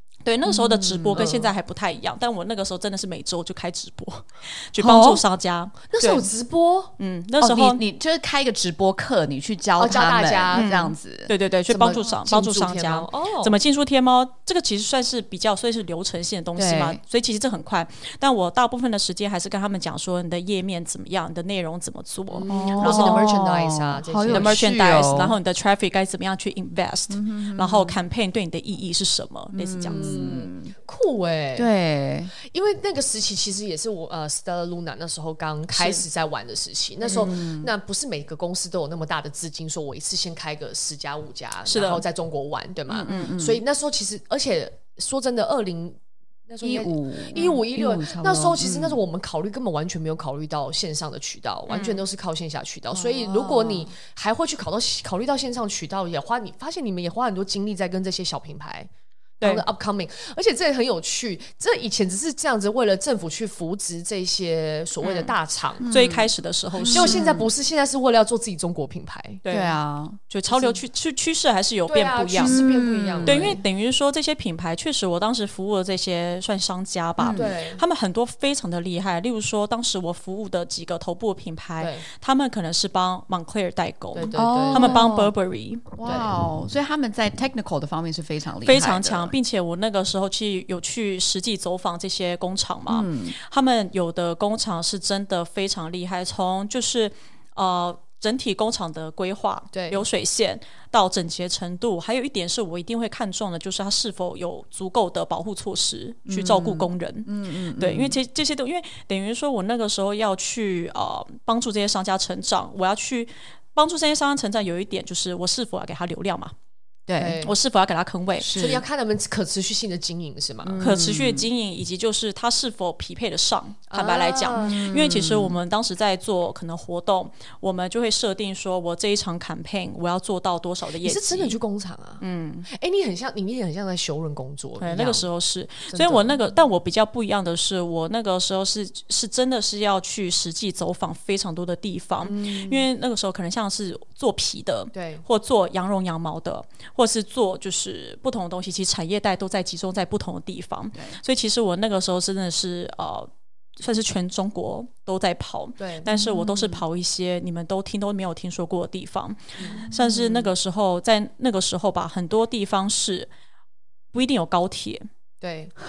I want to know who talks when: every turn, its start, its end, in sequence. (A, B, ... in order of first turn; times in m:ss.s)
0:00.2-0:06.3 A
0:00.4-0:01.3 B
0:01.1-0:01.5 C
0:04.8-0:05.2 B
0:05.9-0:06.9 C
0:07.0-0:07.8 A
0:07.4-0:11.3 B
0:09.8-0:10.7 C
0:10.5-0:23.3 A
0:11.7-0:13.5 C
0:16.6-0:17.0 B
0:22.3-0:24.7 C
0:22.5-0:25.4 B
0:24.3-0:30.4 A
0:27.1-0:28.0 B
0:29.5-0:30.7 B
0:29.9-0:31.7 C
0:31.6-0:32.3 B
0:32.4-0:58.9 C
0:35.7-0:36.0 A
0:37.1-0:37.7 B
0:41.6-0:42.0 A
0:42.9-0:43.6 B
0:46.6-0:49.0 B
0:51.7-0:52.0 A
0:52.9-0:53.9 B
0:59.4-1:05.9 C
1:05.0-1:07.4 A
1:05.8-1:06.3 B
1:06.8-1:07.5 B
1:06.9-1:09.4 C
1:09.4-1:09.8 A
1:09.5-1:10.2 B
1:10.3-1:12.6 A
1:10.5-1:10.8 C
1:11.9-1:13.6 C
1:12.4-1:13.6 B
1:13.2-1:26.0 A
1:17.2-1:17.5 B
1:17.4-1:17.8 C
1:21.8-1:22.0 C
1:24.1-1:25.1 C
1:24.4-1:25.3 B
1:26.0-1:29.3 B
1:26.0-1:26.3 C
1:28.6-1:56.5 A
1:32.9-1:33.3 B
1:39.7-1:40.0 C
1:46.3-1:48.2 B
1:57.1-1:57.4 B
1:57.2-1:57.5 C
1:57.4-1:58.5 A
1:58.3-1:58.8 B
1:58.5-2:00.8 C
2:00.6-2:01.5 B
2:00.8-2:11.6 A
2:03.9-2:04.8 C
2:04.6-2:05.6 B
2:11.0-2:15.3 C
2:12.2-2:12.7 A
2:14.8-2:43.3 A
2:15.9-2:16.5 C
2:22.2-2:22.8 C
2:24.9-2:25.2 C
2:35.8-2:36.1 C
2:36.1-2:36.8 B
2:39.6-2:39.9 C
2:39.8-2:40.5 B
2:44.1-2:45.1 A
2:45.4-2:45.7 C